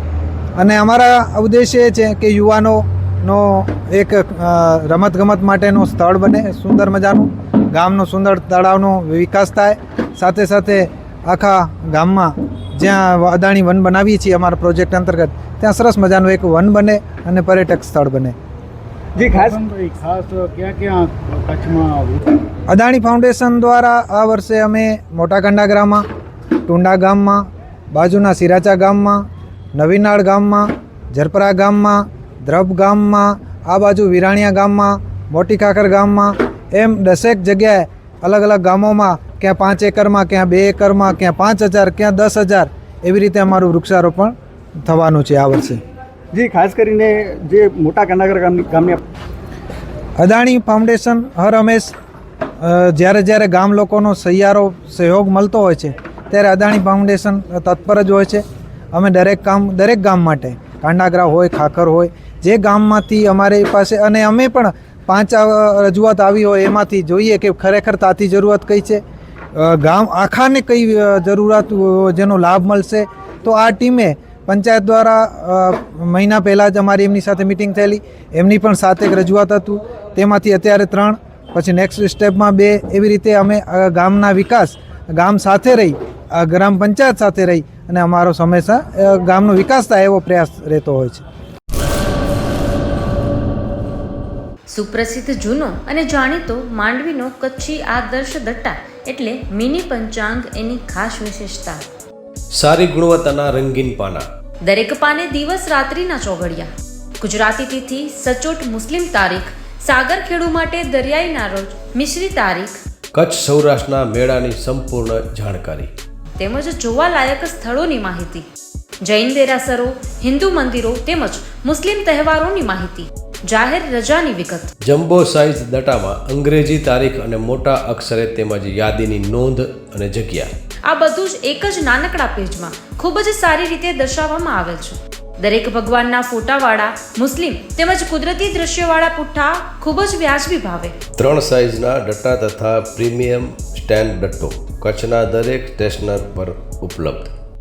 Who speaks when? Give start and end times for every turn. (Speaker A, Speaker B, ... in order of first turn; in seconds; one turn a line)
Speaker A: 0.6-18.3
Speaker B: 19.2-19.6
Speaker C: 19.3-22.2
Speaker A: 22.7-26.0
Speaker A: 26.7-29.2
Speaker A: 29.7-44.3
Speaker A: 44.8-45.8
Speaker B: 46.3-49.0
Speaker A: 50.2-51.9
Speaker A: 52.6-58.4
Speaker A: 58.9-69.0
Speaker A: 69.5-91.2
Speaker D: 94.7-101.8
Speaker E: 102.5-104.2
Speaker D: 104.6-106.7
Speaker D: 107.2-112.8
Speaker E: 113.1-115.9
Speaker D: 116.4-118.4
Speaker D: 119.0-124.7
Speaker E: 124.8-130.5
Speaker D: 130.8-140.9
Speaker E: 141.2-147.3